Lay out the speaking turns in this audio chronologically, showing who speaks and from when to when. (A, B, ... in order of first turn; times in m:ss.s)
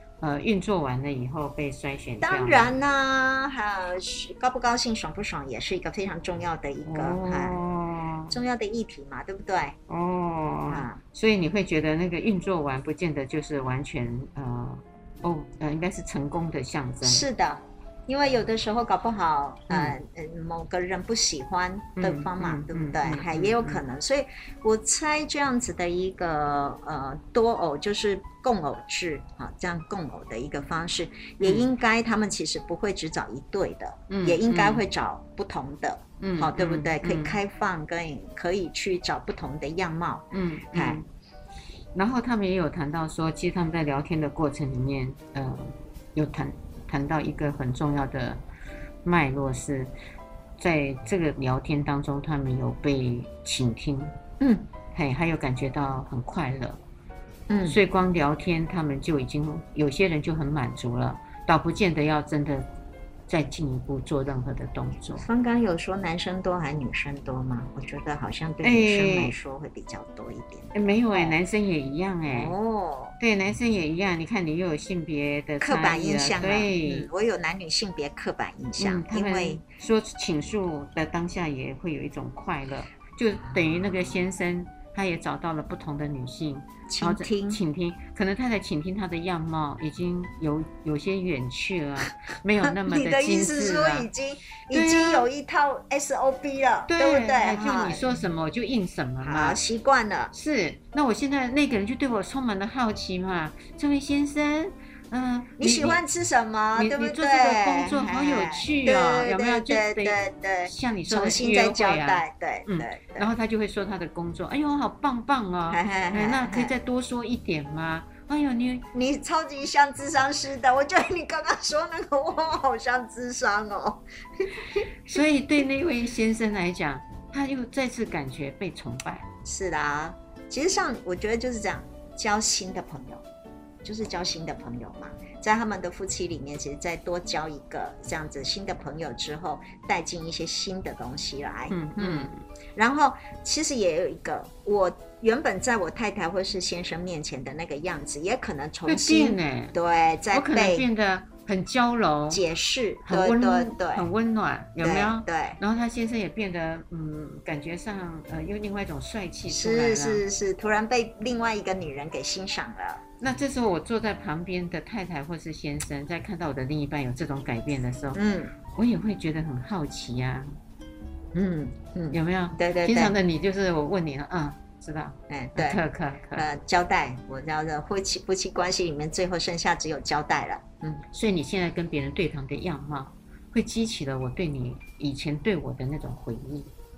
0:00.2-0:02.8 A
0:02.2-0:07.6 B
0:06.8-0:08.3 A
0:08.3-0:09.8 B
0:09.9-0:17.2 A
0:10.7-0:11.0 B
0:17.0-0:41.0 B
0:19.7-0:20.0 A
0:22.0-0:23.8 A
0:31.4-0:31.7 A
0:34.1-0:34.8 A
0:36.2-0:37.4 A
0:40.3-0:41.1 A
0:41.9-0:48.4 A
0:49.0-0:49.9 A
0:50.6-0:54.1 A
0:54.4-0:54.7 B
0:54.9-0:56.8 A
0:57.5-0:57.8 B
0:57.6-1:02.7 A
1:03.3-1:05.2 A
1:05.2-1:11.4 B
1:08.6-1:09.3 A
1:10.7-1:12.5 A
1:12.3-1:13.2 B
1:13.2-1:17.1 A
1:15.6-1:19.6 B
1:18.8-1:34.1 A
1:26.9-1:27.6 B
1:32.7-1:38.0 B
1:34.7-1:35.3 A
1:36.9-1:39.6 A
1:39.2-1:40.3 B
1:40.3-1:46.0 A
1:45.6-1:53.3 B
1:46.8-1:58.8 A
1:55.7-1:56.7 B
1:58.9-2:04.8 B
2:04.8-2:09.3 A
2:09.4-2:13.2 B
2:13.8-2:30.9 B
2:21.7-2:22.4 A
2:28.8-2:29.8 A
2:30.3-2:32.4 A
2:32.3-2:34.1 B
2:33.0-2:40.2 A
2:34.8-2:35.6 B
2:39.5-2:43.0 B
2:43.2-2:48.2 A
2:48.1-2:48.5 B
2:48.7-2:50.6 A
2:51.3-2:53.1 B
2:52.1-2:56.5 A
2:55.3-2:55.8 B
2:56.3-3:01.0 B
3:01.1-3:06.7 A